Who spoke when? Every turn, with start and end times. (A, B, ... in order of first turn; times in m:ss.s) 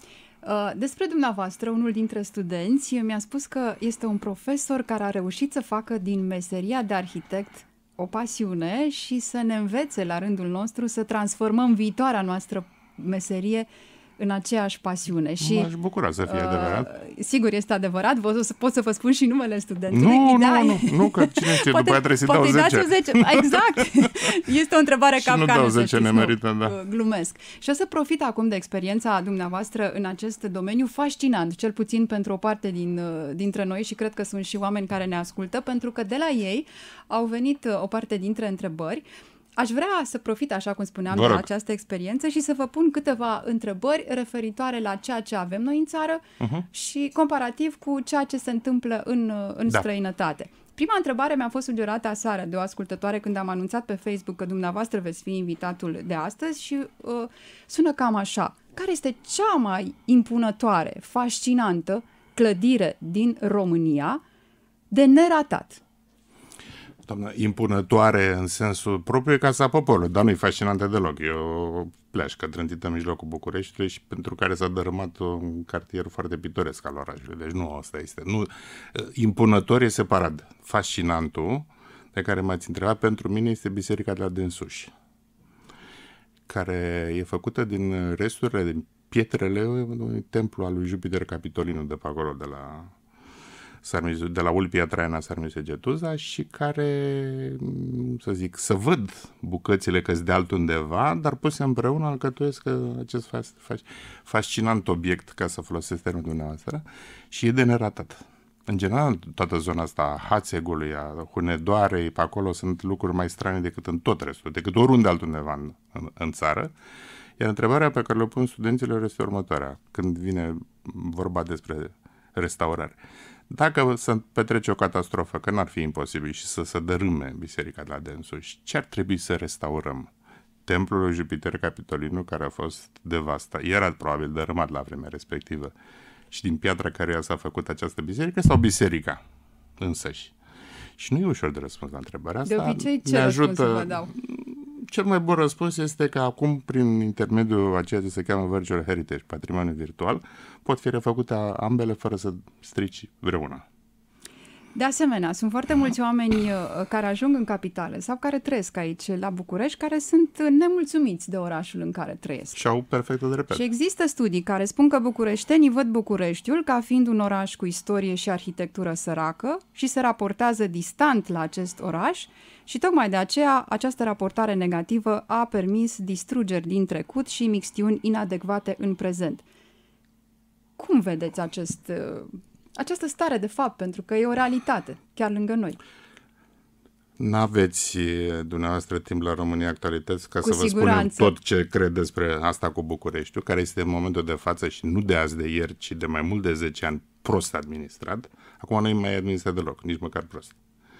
0:00.4-0:15.7 A
0:15.4-0:16.9 B
0:16.2-0:39.0 A
0:19.9-0:24.0 B
0:25.2-0:26.8 B
0:39.6-1:04.2 A
0:41.1-0:41.4 B
0:46.4-0:46.7 B
1:04.9-1:05.8 A
1:07.1-1:24.9 B
1:26.5-1:32.9 B
1:33.8-1:56.7 B
1:57.4-2:10.1 B
2:10.6-2:15.7 B
2:16.3-2:19.2 B
2:19.8-2:20.3 B
2:21.0-2:33.6 B
2:22.4-2:24.1 A
2:34.7-2:42.6 A
2:42.5-2:43.6 B
2:43.5-2:59.4 A
3:00.8-3:05.8 A
3:07.2-3:20.6 B
3:10.4-3:11.3 A